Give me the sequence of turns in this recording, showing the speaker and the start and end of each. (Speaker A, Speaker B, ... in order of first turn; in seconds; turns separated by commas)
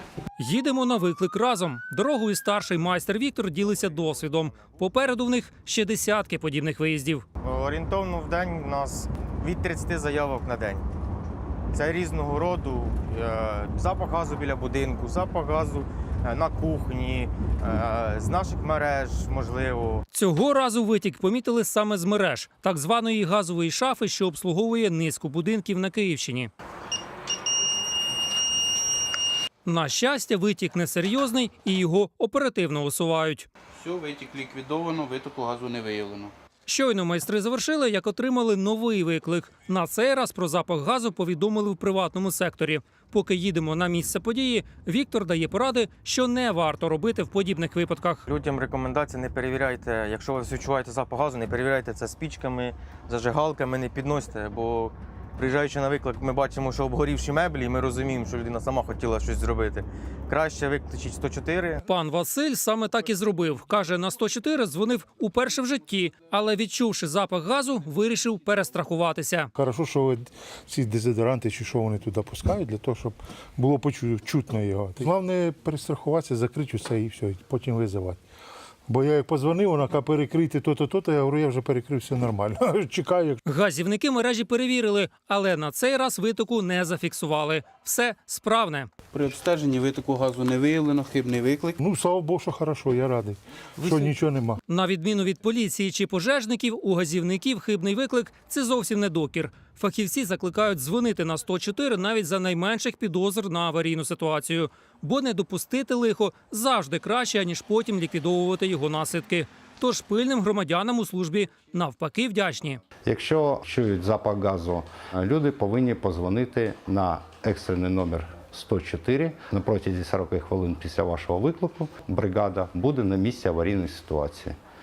Speaker A: 0.4-7.2, Speaker B: 7.4-10.9, Speaker B: 11.7-20.0, Speaker A: 20.1-26.5, Speaker A: 29.6-33.5, Speaker C: 33.7-36.3, Speaker A: 36.7-48.2, Speaker B: 48.3-61.8, Speaker A: 61.8-69.5, Speaker D: 69.6-78.2, Speaker D: 78.9-83.4, Speaker A: 83.5-88.9, Speaker C: 89.1-91.8, Speaker D: 91.8-94.6, Speaker A: 94.7-112.8, Speaker E: 113.0-124.6